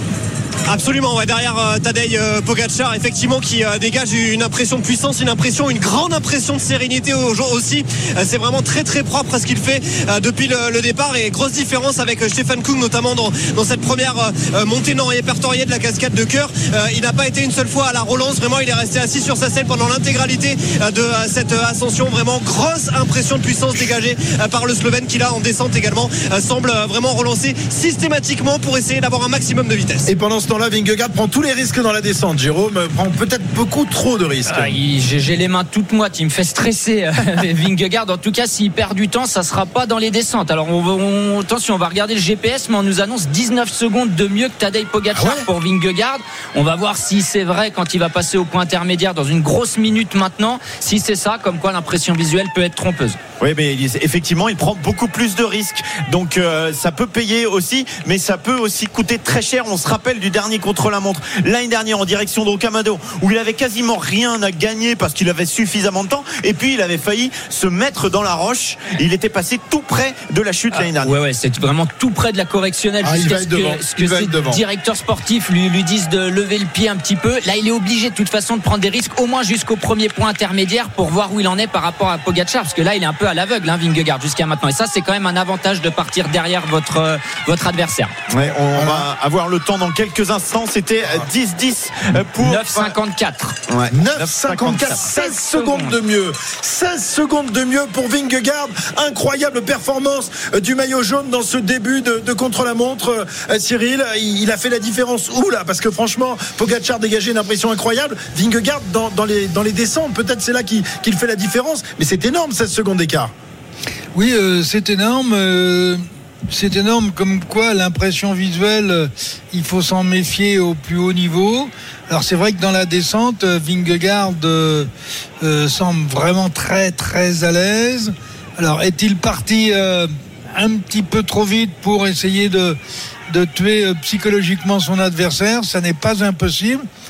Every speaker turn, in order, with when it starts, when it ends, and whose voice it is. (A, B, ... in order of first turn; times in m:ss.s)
0:00.7-0:30.1 A
0:30.1-0:34.8 B
0:34.5-0:53.2 C
0:45.1-0:45.5 B
0:53.4-1:11.1 D
1:10.7-1:28.1 C
1:13.0-1:14.6 B
1:28.3-1:33.0 D
1:28.7-1:29.1 B
1:32.4-1:33.6 C
1:33.7-1:35.0 D
1:33.9-1:53.3 B
1:34.8-1:36.0 C
1:54.1-2:04.9 E
2:05.4-2:16.9 E